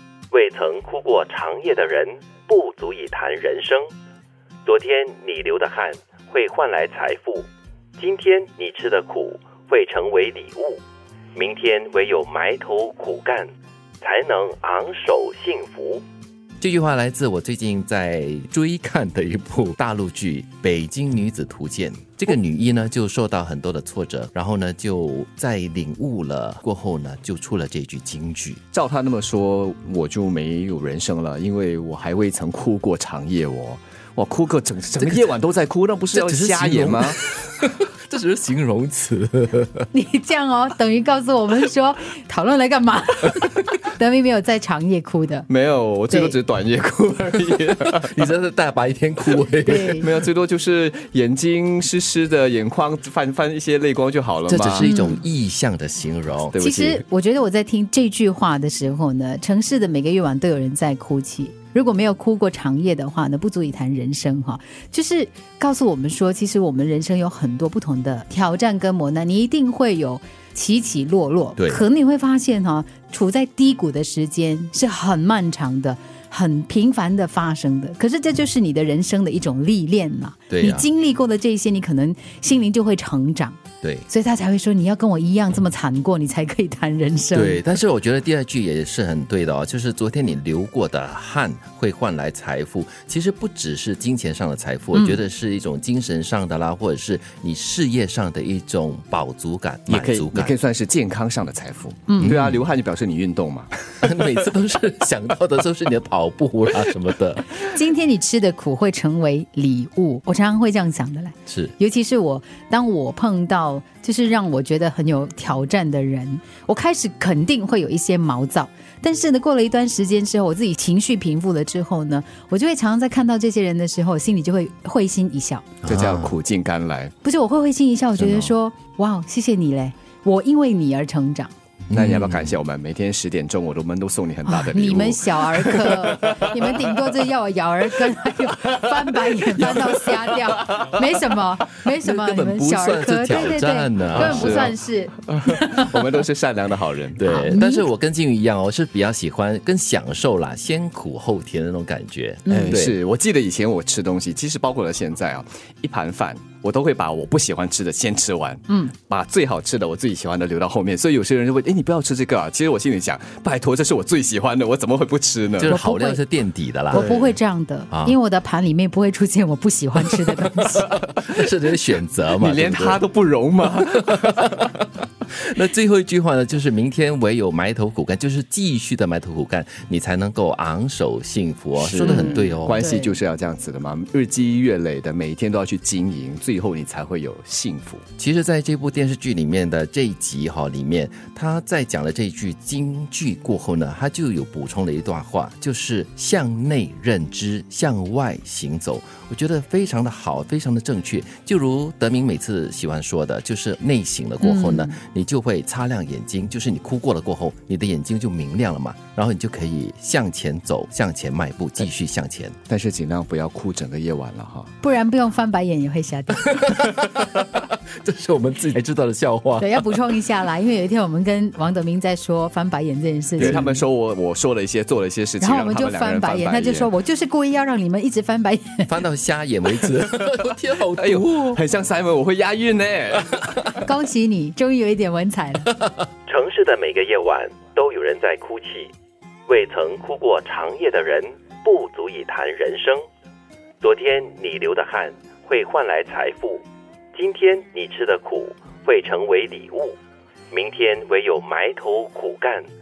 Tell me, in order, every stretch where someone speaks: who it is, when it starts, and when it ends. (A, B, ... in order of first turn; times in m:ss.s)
0:00.3-0:03.9 A
0:04.6-0:07.4 A
0:08.0-0:10.8 A
0:11.4-0:13.5 A
0:14.0-0:16.0 A
0:16.6-0:28.6 B
0:28.7-0:37.2 C
0:35.0-0:35.3 B
0:36.1-0:39.8 B
0:39.9-0:45.5 D
0:45.5-0:48.0 C
0:46.1-0:46.4 D
0:47.8-0:50.0 B
0:49.6-0:50.1 D
0:50.0-0:54.9 C
0:54.5-0:56.5 B
0:54.8-0:55.2 D
0:56.5-0:57.0 C
0:56.6-1:27.6 D
1:11.6-1:11.8 B
1:20.5-1:20.9 B
1:23.8-1:24.1 B
1:27.3-1:40.5 B
1:34.9-1:35.2 D
1:39.9-1:44.0 C
1:42.1-1:42.3 D
1:42.2-1:42.6 B
1:44.0-1:47.6 B
1:47.6-2:05.6 D
1:51.5-1:51.7 B
2:05.8-2:07.1 C
2:05.8-2:06.3 B
2:07.2-2:11.5 D
2:08.2-2:08.5 C
2:11.9-2:12.5 B
2:11.9-2:16.9 C
2:14.4-2:26.0 D
2:19.5-2:20.3 C
2:21.9-2:24.6 B
2:24.1-2:24.8 C
2:25.3-2:27.2 C
2:27.2-2:33.0 B
2:27.2-2:27.9 D
2:32.4-2:32.7 D
2:32.5-2:45.7 C
2:45.6-2:47.3 B
2:45.6-2:46.2 D
2:46.9-2:51.0 D
2:46.9-2:47.2 C
2:47.9-2:48.2 B
2:50.8-2:53.0 B
2:52.4-2:54.6 C
2:54.2-2:54.5 B
2:55.3-3:02.8 B
3:01.8-3:08.0 C
3:02.0-3:03.1 D
3:08.2-3:32.6 B
3:24.4-3:25.0 D
3:32.7-3:34.7 C
3:34.8-3:36.6 D
3:36.4-3:39.8 B
3:39.6-3:43.8 D
3:43.4-3:46.9 C
3:45.4-3:48.9 D
3:48.9-3:51.6 B
3:50.2-3:53.7 C
3:53.8-3:55.7 D
3:56.3-3:58.9 A
3:59.5-4:03.0 A
4:03.8-4:06.6 A
4:07.1-4:09.9 A
4:10.5-4:12.6 A